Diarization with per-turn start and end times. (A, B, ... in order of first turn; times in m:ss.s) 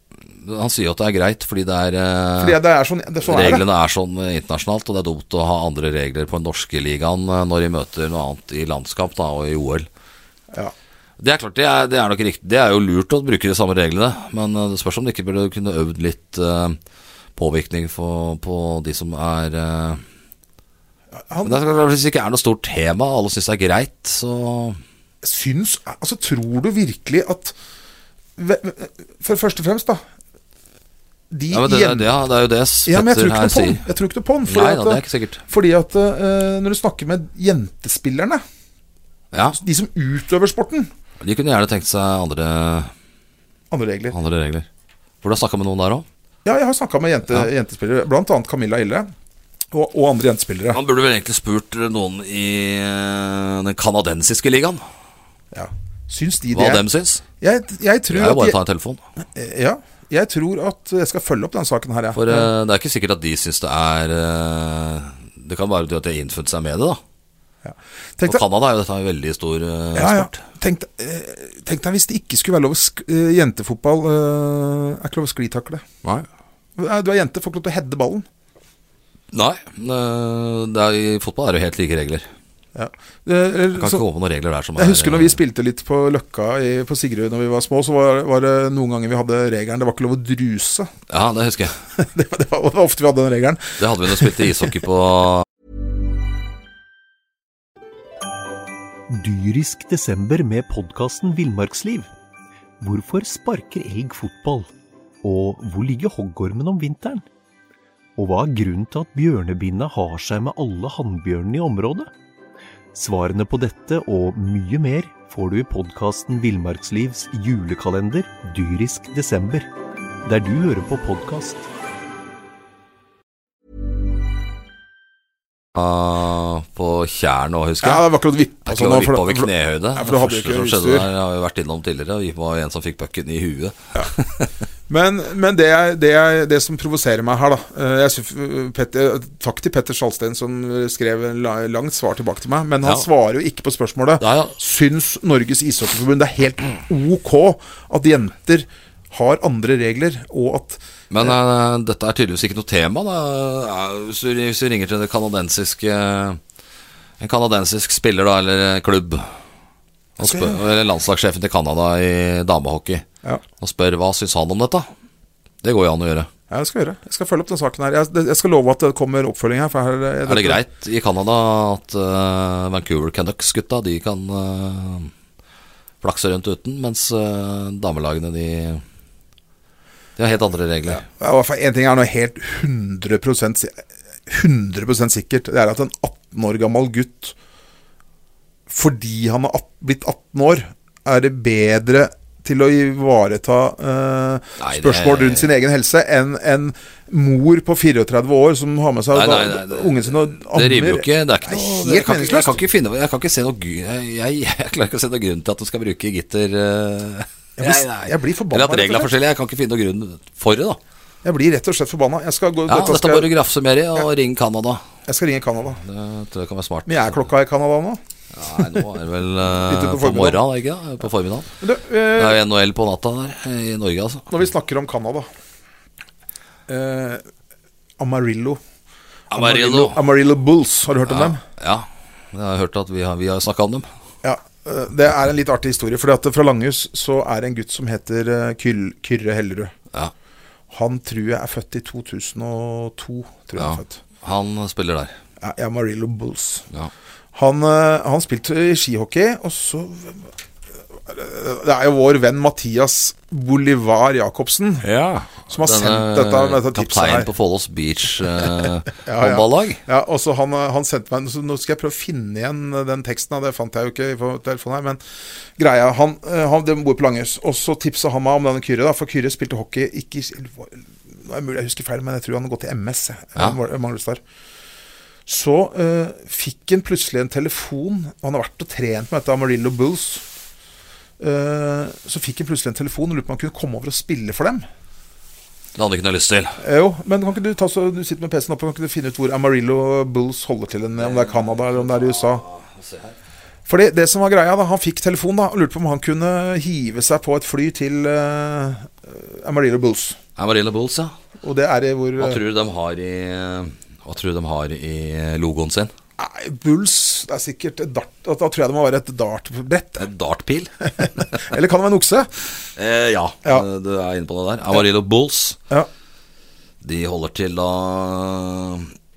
0:00.2-0:02.6 A
0:02.4-0:03.6 B
0:03.2-0:09.9 A
0:11.2-0:16.8 A
0:17.4-0:20.0 A
0:21.2-0:21.6 B
0:21.4-0:24.8 A
0:25.2-0:27.6 B
0:28.4-0:30.0 B
0:31.3-0:32.1 B
0:31.5-0:33.8 A
0:32.9-0:38.4 B
0:34.5-0:35.4 A
0:39.3-0:39.6 A
0:39.5-0:40.9 B
0:41.2-0:42.9 A
0:43.7-0:44.2 B
0:44.1-0:44.7 A
0:45.2-0:46.1 A
0:46.4-0:49.1 B
0:49.7-0:50.8 B
0:50.7-0:54.8 A
0:55.5-0:56.9 B
0:56.5-0:57.2 A
0:57.4-0:58.6 B
0:58.1-0:59.0 A
0:59.2-1:02.5 B
1:02.2-1:07.0 A
1:07.6-1:08.4 B
1:08.3-1:10.4 A
1:10.0-1:15.8 B
1:16.8-1:18.3 B
1:19.3-1:22.3 A
1:22.8-1:24.0 B
1:23.8-1:25.4 A
1:24.8-1:30.9 B
1:31.1-1:31.8 A
1:32.0-1:34.5 B
1:33.8-1:35.4 A
1:39.1-1:42.1 C
1:42.8-1:44.7 C
1:45.2-1:47.2 C
1:48.2-1:52.1 C
1:52.9-1:59.7 C
2:00.2-2:01.7 C
2:05.8-2:08.0 A
2:07.8-2:11.1 B
2:08.6-2:14.5 A
2:14.9-2:31.3 B
2:24.2-2:24.6 A
2:31.1-2:36.4 A
2:37.2-2:39.3 A
2:40.2-2:43.1 A
2:40.2-2:40.6 B
2:43.6-2:44.9 A
2:45.6-2:46.3 A
2:46.5-2:50.6 B
2:50.3-2:55.1 A
2:56.0-2:58.8 A
3:00.2-3:01.0 A
3:00.9-3:07.4 B
3:08.7-3:22.6 B
3:14.6-3:15.5 A
3:19.1-3:30.8 A
3:27.6-3:29.1 B
3:31.2-3:33.3 B
3:32.7-3:34.8 A
3:35.1-3:35.8 B
3:35.8-3:37.3 A
3:36.9-3:38.0 B
3:38.4-3:41.5 A
3:39.6-3:40.4 B
3:41.6-3:42.4 B
3:42.2-3:44.3 A
3:44.3-3:45.3 B
3:46.7-3:47.2 B
3:48.0-3:48.6 B
3:49.3-3:50.0 A
3:49.3-3:51.4 B
3:51.1-3:53.9 A
3:54.2-3:59.7 B
4:00.7-4:04.0 B
4:03.6-4:05.2 A
4:05.4-4:06.7 B
4:07.3-4:10.3 B
4:10.9-4:14.9 B
4:14.8-4:19.8 A
4:15.5-4:17.3 B
4:18.4-4:25.0 B
4:25.6-4:34.2 B
4:35.3-4:40.2 B
4:41.2-4:44.7 B
4:45.8-4:46.6 A
4:46.6-4:52.4 B
4:51.0-4:53.2 A
4:53.7-5:00.2 B
5:00.4-5:01.2 A
5:01.4-5:02.4 B
5:02.2-5:05.9 A
5:06.2-5:10.1 B
5:10.0-5:11.4 A
5:11.0-5:12.3 B
5:12.8-5:15.6 A
5:16.8-5:18.9 A